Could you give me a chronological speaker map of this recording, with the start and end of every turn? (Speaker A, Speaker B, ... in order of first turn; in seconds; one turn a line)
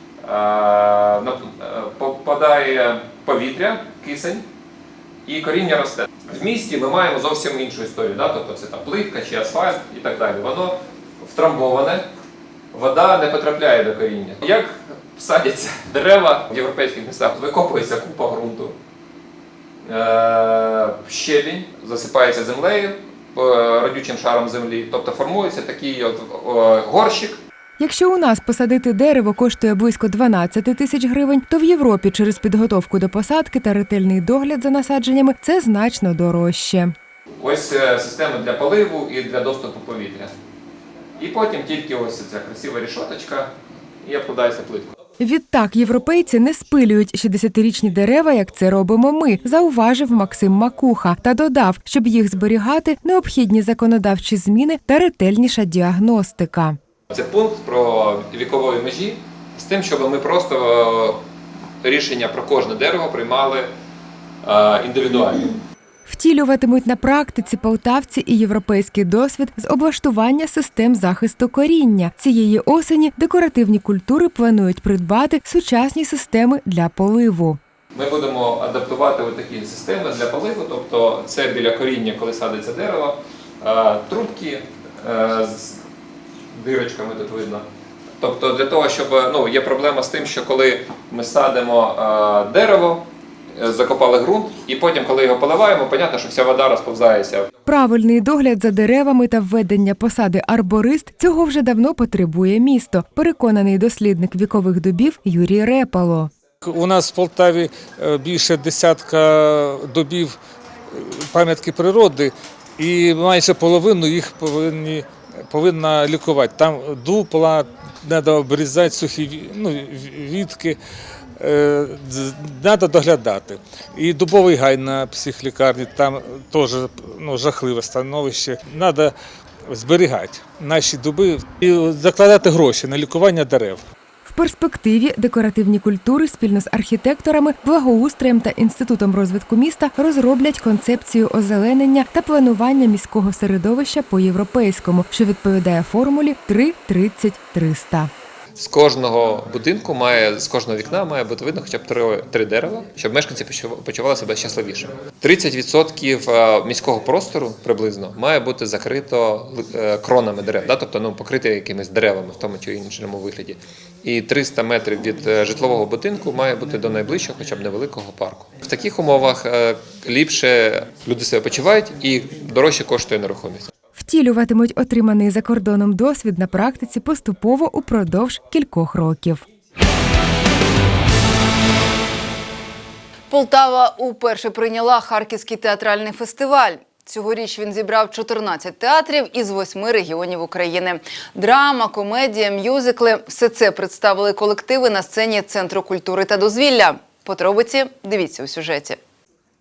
Speaker A: 0.2-4.4
Speaker A: 5.2-12.1
Speaker A: 12.7-18.8
Speaker A: 19.8-27.4
Speaker B: 27.8-36.9
Speaker A: 37.4-40.3
Speaker A: 41.2-44.9
Speaker B: 45.2-56.8
Speaker A: 57.1-61.2
Speaker A: 61.8-63.7
Speaker A: 64.4-65.5
Speaker B: 66.1-77.6
Speaker A: 77.9-85.8
Speaker A: 86.5-87.6
Speaker A: 88.2-93.0
Speaker A: 93.5-97.5
Speaker B: 97.6-106.3
Speaker C: 106.6-110.4
Speaker C: 110.9-120.8
Speaker C: 121.4-129.1
Speaker C: 129.7-133.8
Speaker B: 134.2-148.1
Speaker A: 148.6-173.7
Speaker B: 174.0-179.4
Speaker D: 183.3-199.0